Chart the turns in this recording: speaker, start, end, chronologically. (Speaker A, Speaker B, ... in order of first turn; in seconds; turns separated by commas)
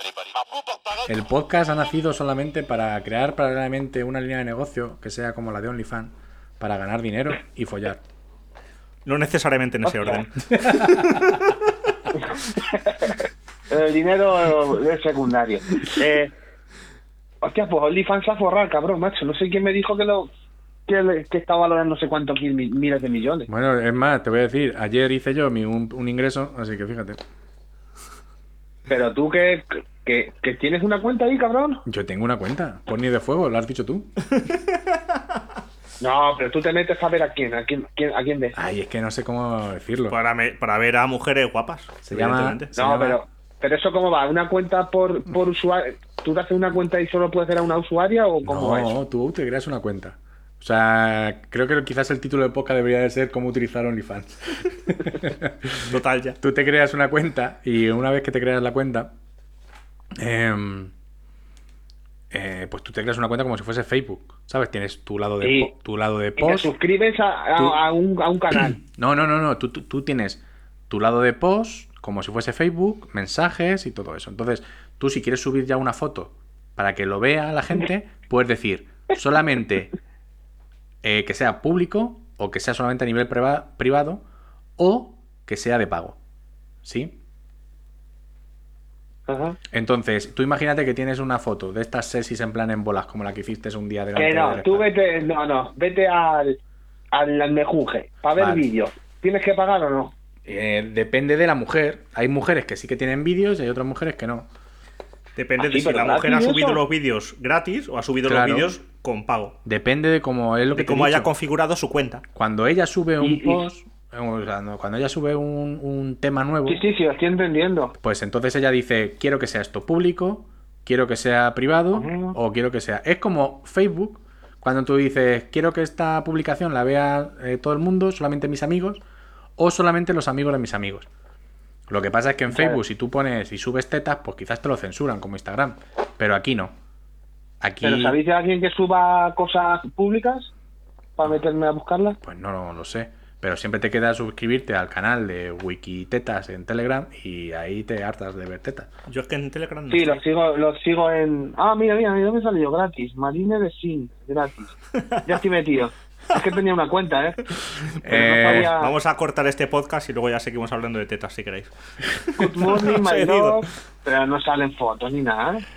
Speaker A: 1.1-8.0, Speaker B: 9.0-11.5, Speaker A: 10.7-11.0, Speaker C: 12.5-16.3, Speaker C: 17.4-20.3, Speaker C: 20.9-23.5, Speaker A: 23.5-27.2, Speaker C: 28.9-31.8, Speaker A: 31.9-34.1, Speaker B: 34.4-34.8, Speaker C: 36.0-38.6, Speaker A: 38.5-40.2, Speaker B: 40.1-42.7, Speaker A: 42.0-43.2, Speaker C: 42.8-49.0, Speaker A: 48.4-55.8, Speaker B: 55.9-56.4, Speaker A: 56.4-59.1, Speaker A: 60.2-60.9, Speaker A: 62.3-66.7, Speaker C: 65.4-65.7, Speaker C: 66.4-68.8, Speaker A: 68.5-79.9, Speaker A: 81.0-84.2, Speaker A: 84.8-86.2, Speaker A: 86.8-87.2, Speaker C: 89.3-89.6, Speaker A: 89.7-94.8, Speaker C: 94.1-96.6, Speaker C: 97.1-100.1, Speaker A: 98.4-98.7, Speaker A: 100.4-104.5, Speaker B: 105.3-109.5, Speaker C: 105.6-106.8, Speaker A: 108.2-108.7, Speaker A: 109.7-111.3, Speaker B: 110.7-112.2, Speaker A: 112.3-116.8, Speaker C: 113.2-113.7, Speaker C: 116.7-117.9, Speaker A: 118.0-129.0, Speaker C: 121.9-122.4, Speaker A: 129.6-131.1, Speaker A: 131.9-136.7, Speaker C: 132.5-132.8, Speaker A: 137.6-138.2, Speaker C: 137.8-140.5, Speaker C: 141.2-142.2, Speaker A: 142.2-148.9, Speaker B: 149.1-150.2, Speaker C: 149.9-157.4, Speaker A: 158.0-158.7, Speaker C: 158.0-158.9, Speaker B: 158.5-163.7, Speaker C: 162.4-165.6